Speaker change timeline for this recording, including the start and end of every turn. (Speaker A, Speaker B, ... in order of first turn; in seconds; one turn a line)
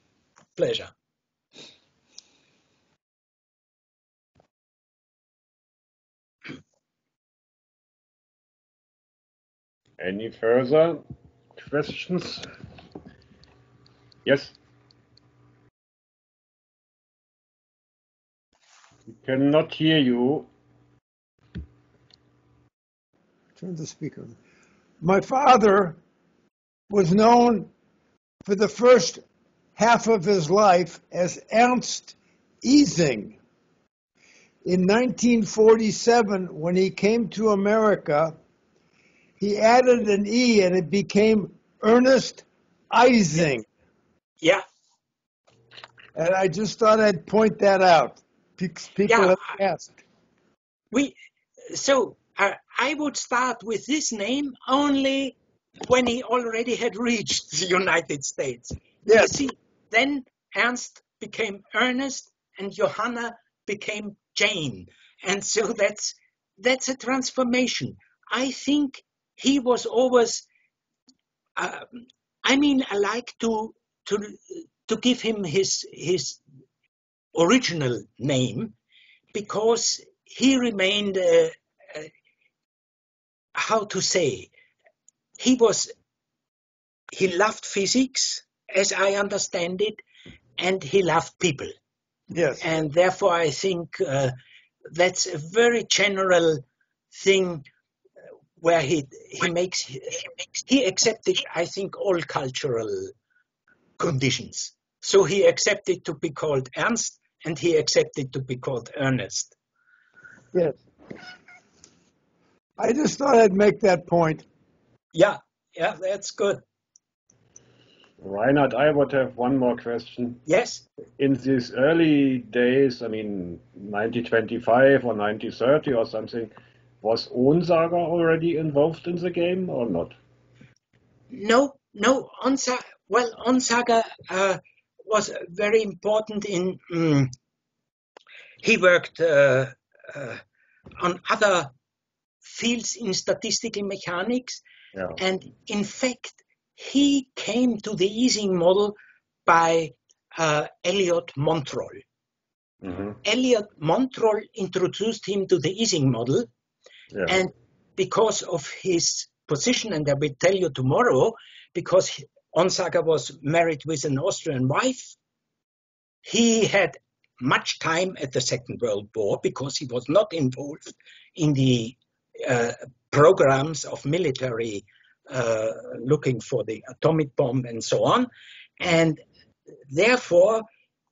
Speaker A: 0.6-0.9
Speaker B: 10.0-12.5
Speaker B: 14.2-14.6
Speaker B: 19.1-20.5
Speaker C: 23.6-24.4
Speaker C: 25.0-26.0
Speaker C: 26.9-27.7
Speaker C: 28.4-29.2
Speaker C: 29.8-33.4
Speaker C: 34.6-38.4
Speaker C: 39.4-43.6
Speaker C: 46.1-49.9
Speaker A: 49.1-49.4
Speaker A: 51.7-70.5
Speaker C: 59.0-59.3
Speaker A: 71.5-76.4
Speaker A: 77.3-78.7
Speaker A: 79.3-82.1
Speaker A: 83.5-84.5
Speaker A: 85.4-85.9
Speaker A: 87.1-90.0
Speaker A: 90.6-91.7
Speaker C: 92.3-92.6
Speaker A: 92.6-94.3
Speaker A: 94.9-97.7
Speaker A: 98.6-103.1
Speaker A: 104.0-109.5
Speaker C: 110.5-110.8
Speaker C: 112.8-114.4
Speaker A: 115.1-116.6
Speaker B: 118.2-120.4
Speaker A: 120.5-120.8
Speaker B: 121.2-126.5
Speaker B: 127.0-130.2
Speaker A: 131.3-137.3
Speaker A: 138.6-140.4
Speaker A: 141.0-141.7
Speaker A: 142.4-144.6
Speaker A: 145.2-152.0
Speaker B: 152.8-153.2
Speaker A: 153.2-156.5
Speaker B: 157.1-157.4
Speaker A: 157.3-165.2
Speaker A: 166.2-179.2
Speaker A: 179.9-180.6